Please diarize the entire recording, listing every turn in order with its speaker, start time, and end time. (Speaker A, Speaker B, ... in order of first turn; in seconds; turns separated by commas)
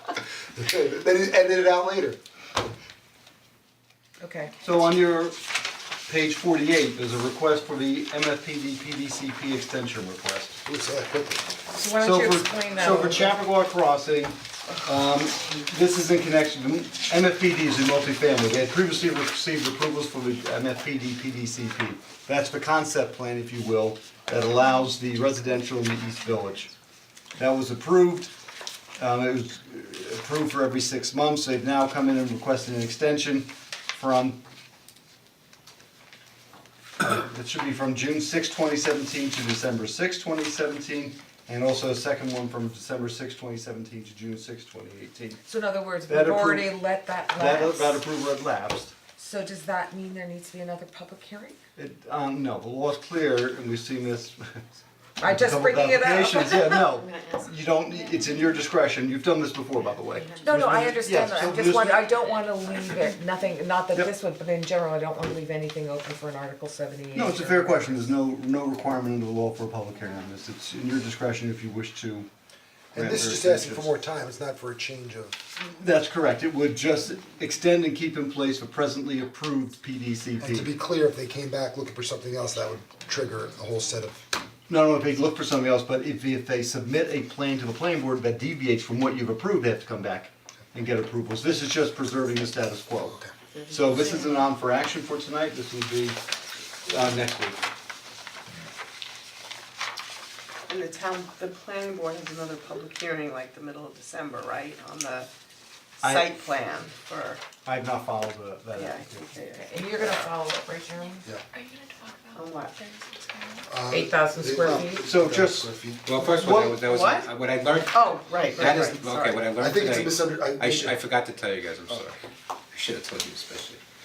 Speaker A: 0.6-2.2, Speaker B: 4.2-4.5, Speaker C: 4.6-5.4, Speaker C: 6.1-10.6, Speaker A: 10.7-11.5, Speaker B: 11.7-13.4, Speaker C: 12.0-26.7, Speaker C: 27.4-28.3, Speaker C: 29.0-34.4, Speaker C: 37.0-45.4, Speaker B: 45.5-48.0, Speaker C: 46.1-46.7, Speaker C: 47.4-49.0, Speaker B: 49.2-51.6, Speaker C: 51.8-54.7, Speaker B: 55.2-56.9, Speaker C: 55.2-62.1, Speaker D: 56.9-58.5, Speaker B: 60.4-68.1, Speaker C: 67.1-72.3, Speaker C: 72.9-74.0, Speaker A: 72.9-75.4, Speaker C: 75.6-80.7, Speaker A: 80.4-84.2, Speaker C: 84.7-96.2, Speaker A: 93.0-93.3, Speaker D: 93.5-94.5, Speaker C: 96.8-97.6, Speaker D: 100.7-105.3, Speaker D: 106.0-107.4, Speaker C: 106.0-106.4, Speaker C: 107.7-109.3, Speaker D: 108.7-110.3, Speaker B: 109.5-111.3, Speaker E: 111.0-113.7, Speaker D: 112.3-112.9, Speaker A: 113.7-116.2, Speaker B: 113.9-115.0, Speaker C: 115.0-115.7, Speaker F: 116.0-122.2, Speaker C: 116.2-116.8, Speaker D: 116.7-117.3, Speaker D: 117.9-119.5, Speaker A: 119.6-121.0, Speaker F: 122.7-123.8